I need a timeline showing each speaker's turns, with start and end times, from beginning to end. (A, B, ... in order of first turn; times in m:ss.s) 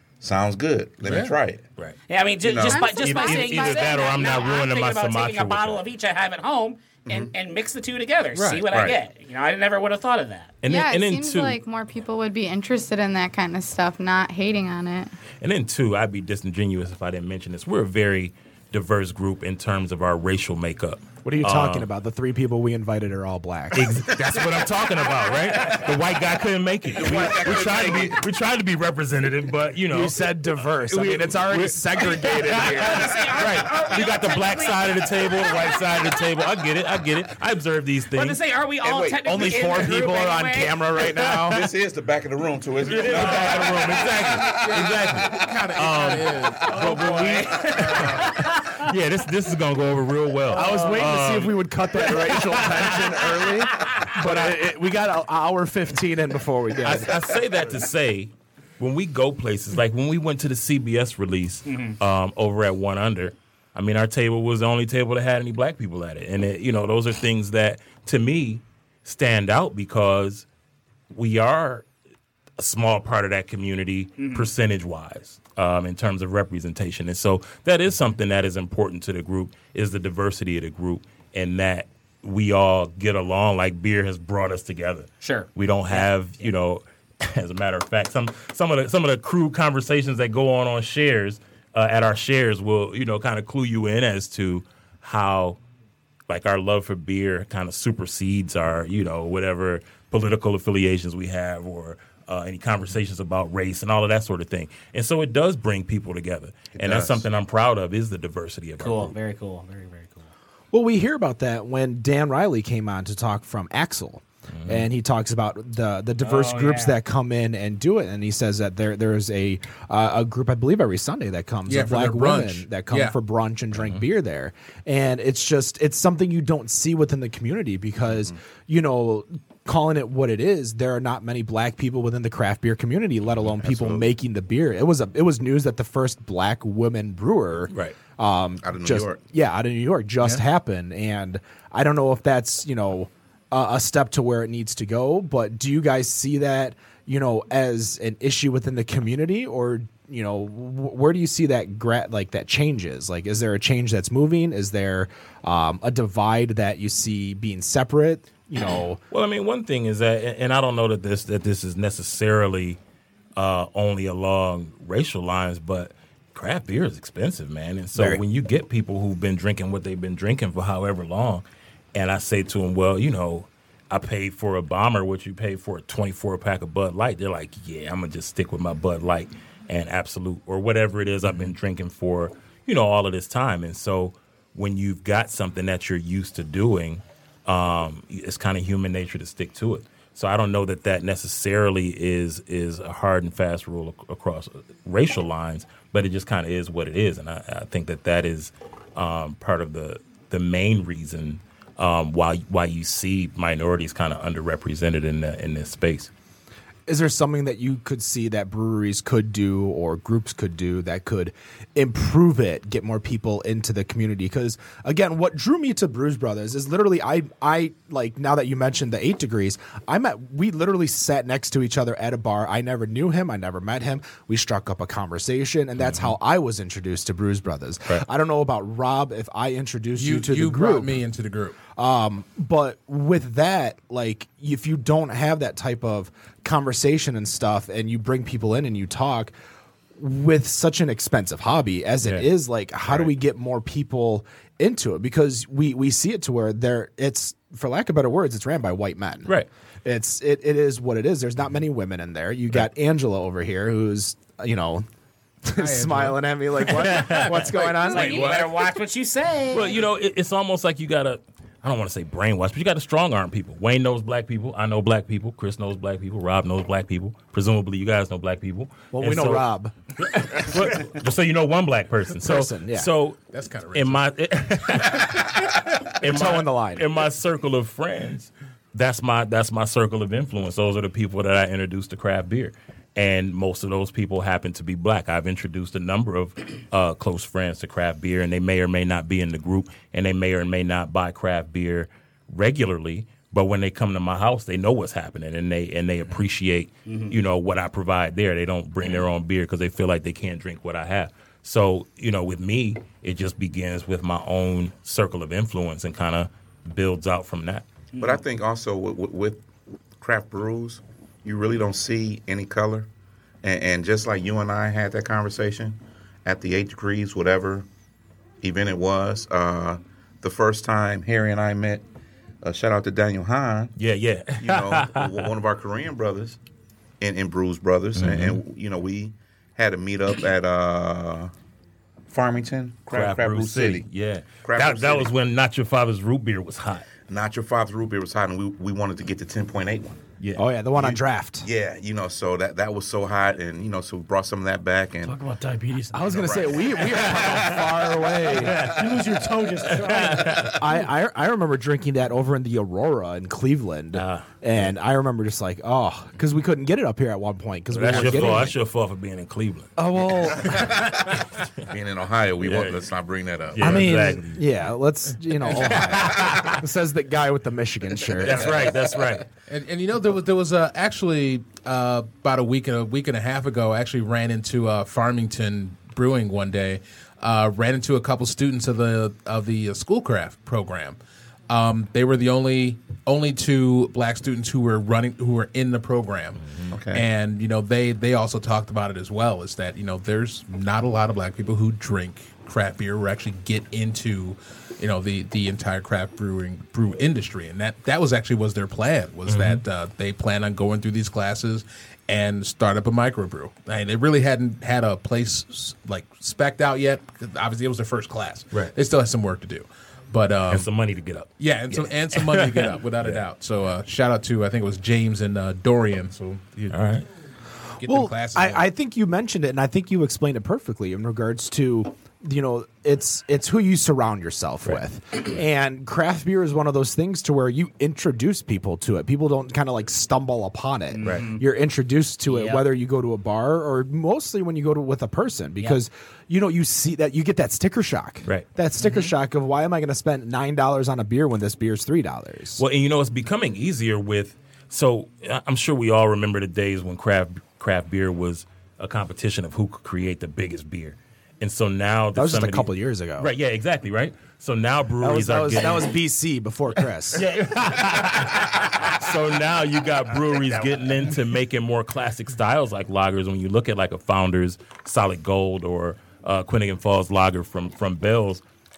0:00.2-0:01.6 A
0:01.0-0:01.4 B
0:02.1-0:10.5 C
0:02.4-0:02.9 A
0:02.7-0:04.4 D
0:02.9-0:05.8 E
0:07.1-0:07.3 A
0:08.4-0:08.7 B
0:08.7-0:09.0 E
0:10.6-0:11.6 E
0:10.7-0:15.1 D
0:15.4-0:21.9 E
0:21.2-0:24.1 F
0:23.7-0:30.2 E
0:24.4-0:24.6 A
0:25.5-0:25.8 C
0:26.9-0:28.2 A
0:29.9-0:33.2 F
0:30.7-0:31.8 E
0:32.0-0:36.1 C
0:32.5-0:38.4 E
0:38.1-0:40.8 C
0:38.8-0:39.7 A
0:39.2-0:41.7 F
0:41.4-0:45.7 A
0:42.8-0:53.1 E
0:43.0-0:43.8 C
0:43.0-0:43.6 B
0:44.3-0:48.5 B
0:46.6-0:47.6 A
0:46.7-0:48.8 C
0:50.5-0:57.2 F
0:50.5-0:51.1 C
0:53.8-0:54.1 C
0:54.2-0:54.5 B
0:56.8-1:10.5 E
1:01.7-1:02.0 C
1:11.1-1:11.9 E
1:12.6-1:35.6 E
1:14.2-1:14.5 C
1:25.2-1:26.5 C
1:36.3-1:49.2 E
1:46.7-1:47.3 A
1:48.8-1:50.3 C
1:50.7-2:39.0 F
1:54.6-1:54.8 E
1:56.2-1:57.0 C
2:01.7-2:03.2 B
2:13.6-2:14.1 A
2:18.6-2:19.2 A
2:39.1-2:42.8 E
2:43.4-3:26.1 E
3:26.9-3:51.0 F
3:50.0-3:51.6 B
3:51.8-3:59.3 F
4:00.0-4:14.9 F
4:15.4-4:18.3 F
4:15.5-4:18.6 B
4:16.8-4:17.4 E
4:17.6-4:19.8 C
4:19.5-4:29.5 E
4:28.9-4:29.8 F
4:30.0-4:33.2 E
4:30.4-4:30.7 F
4:32.2-4:32.9 F
4:33.3-4:34.0 B
4:33.7-5:07.6 E
4:36.0-4:36.9 F
4:56.9-4:57.2 C
5:07.9-5:08.2 C
5:08.0-5:09.4 A
5:10.0-5:12.9 A
5:13.4-5:17.7 A
5:18.4-5:21.8 A
5:22.4-5:23.7 A
5:23.8-5:25.3 E
5:24.4-5:26.4 A
5:27.0-5:31.3 A
5:28.0-5:28.4 E
5:32.1-5:33.9 A
5:32.9-5:36.9 E
5:34.4-5:35.1 A
5:37.1-5:40.0 A
5:40.4-5:41.5 F
5:40.8-5:45.2 A
5:45.0-5:46.4 G
5:45.9-5:48.7 F
5:46.1-5:47.6 A
5:46.7-5:49.0 E
5:48.6-5:50.6 G
5:49.6-5:50.6 E
5:50.6-5:58.6 F
5:53.9-5:54.3 E
5:57.7-6:01.3 E
5:59.8-6:00.8 F
6:01.7-6:03.8 A
6:02.4-6:02.8 E
6:03.5-6:04.4 E
6:03.6-6:08.7 F
6:05.5-6:06.6 E
6:08.2-6:09.3 E
6:09.4-6:21.0 B
6:21.5-6:50.7 B
6:26.7-6:27.1 A
6:39.3-6:39.6 E
6:50.5-6:53.2 E
6:51.4-6:56.8 B
6:56.7-6:57.1 E
6:57.8-6:58.6 B
6:57.8-7:22.6 F
7:10.9-7:11.4 C
7:12.3-7:12.6 C
7:22.6-7:36.0 E
7:32.1-7:33.3 F
7:35.0-7:37.3 F
7:37.1-7:48.4 E